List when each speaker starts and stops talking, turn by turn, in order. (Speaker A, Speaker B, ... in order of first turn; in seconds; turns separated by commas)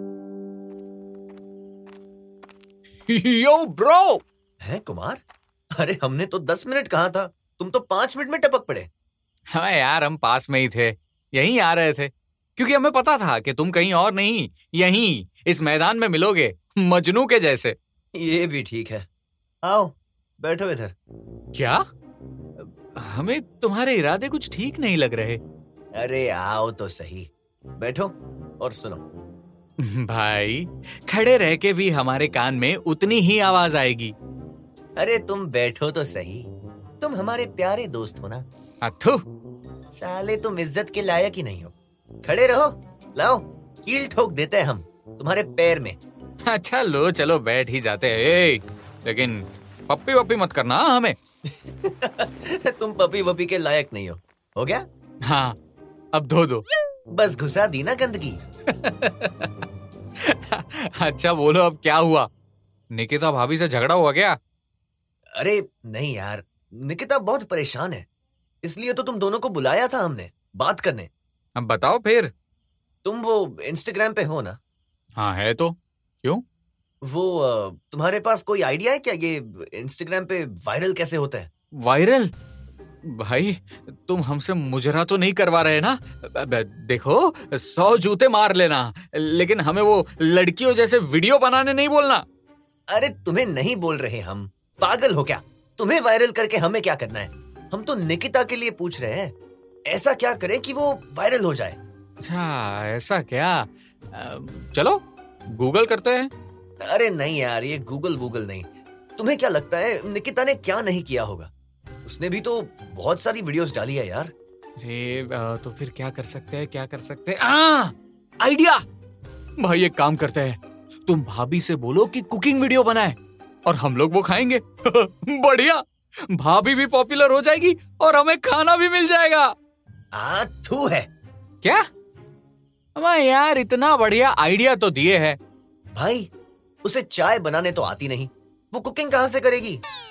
Speaker A: 3.1-4.2, Speaker B: 4.6-5.2, Speaker B: 5.8-8.9, Speaker A: 9.5-17.8, Speaker B: 18.2-19.1, Speaker B: 19.6-21.0, Speaker A: 21.6-21.8, Speaker A: 22.6-25.4, Speaker B: 25.9-29.0, Speaker A: 29.8-34.1, Speaker B: 35.0-36.5, Speaker B: 37.0-38.5, Speaker A: 38.8-39.2, Speaker B: 39.9-46.0, Speaker A: 46.5-51.2, Speaker B: 51.5-54.9, Speaker A: 55.2-55.6, Speaker A: 56.1-56.6, Speaker B: 57.1-58.4, Speaker A: 58.8-59.5, Speaker A: 60.2-62.3, Speaker A: 62.9-64.4, Speaker B: 65.3-68.1, Speaker B: 68.6-71.1, Speaker A: 71.6-72.3, Speaker B: 73.0-74.6, Speaker A: 75.2-76.4, Speaker B: 77.0-81.5, Speaker A: 81.8-82.3, Speaker A: 83.0-92.2, Speaker B: 92.9-99.3, Speaker B: 99.9-101.8, Speaker A: 102.2-106.3, Speaker B: 106.8-111.5, Speaker B: 112.0-114.3, Speaker A: 114.8-118.8, Speaker A: 119.6-129.5, Speaker B: 130.1-131.1, Speaker A: 133.0-135.4, Speaker B: 135.9-136.3, Speaker B: 136.8-139.8